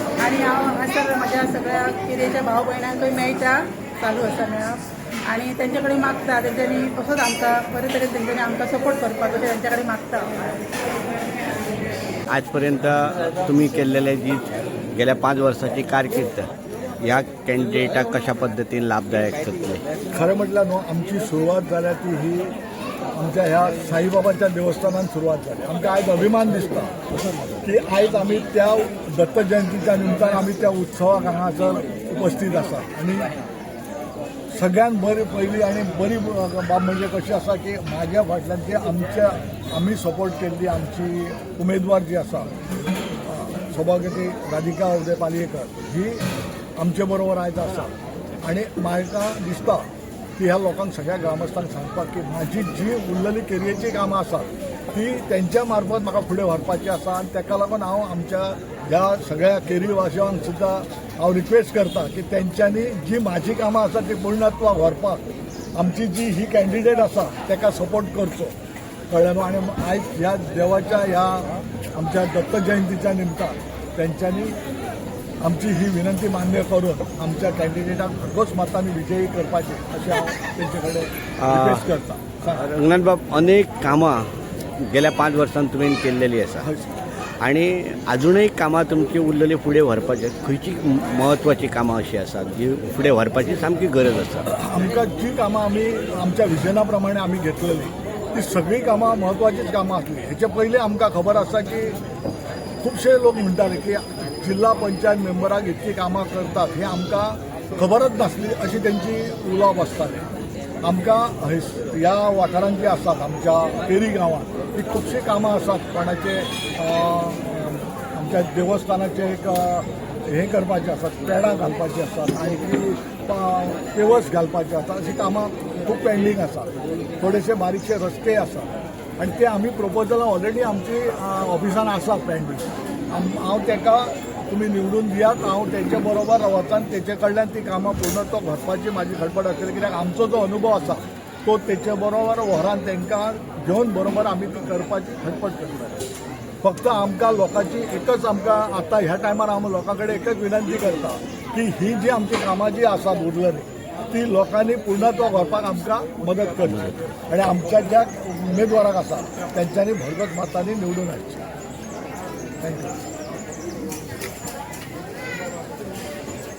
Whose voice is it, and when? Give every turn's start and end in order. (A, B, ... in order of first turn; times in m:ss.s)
0:00.2-0:10.3 A
0:12.3-0:19.8 B
0:20.1-0:22.6 C
0:23.1-0:26.9 C
0:27.6-0:33.3 C
0:34.5-0:42.5 C
0:43.2-0:46.2 C
0:46.8-0:47.9 C
0:48.4-1:08.5 C
1:09.1-1:14.6 C
1:15.4-1:22.6 C
1:21.4-1:21.9 B
1:22.6-1:24.3 B
1:24.8-1:26.7 B
1:26.6-1:27.0 C
1:27.4-1:34.5 B
1:34.4-1:42.0 C
1:42.8-1:50.3 C
1:50.8-2:26.0 C
2:26.6-2:41.4 C
2:42.6-2:43.0 C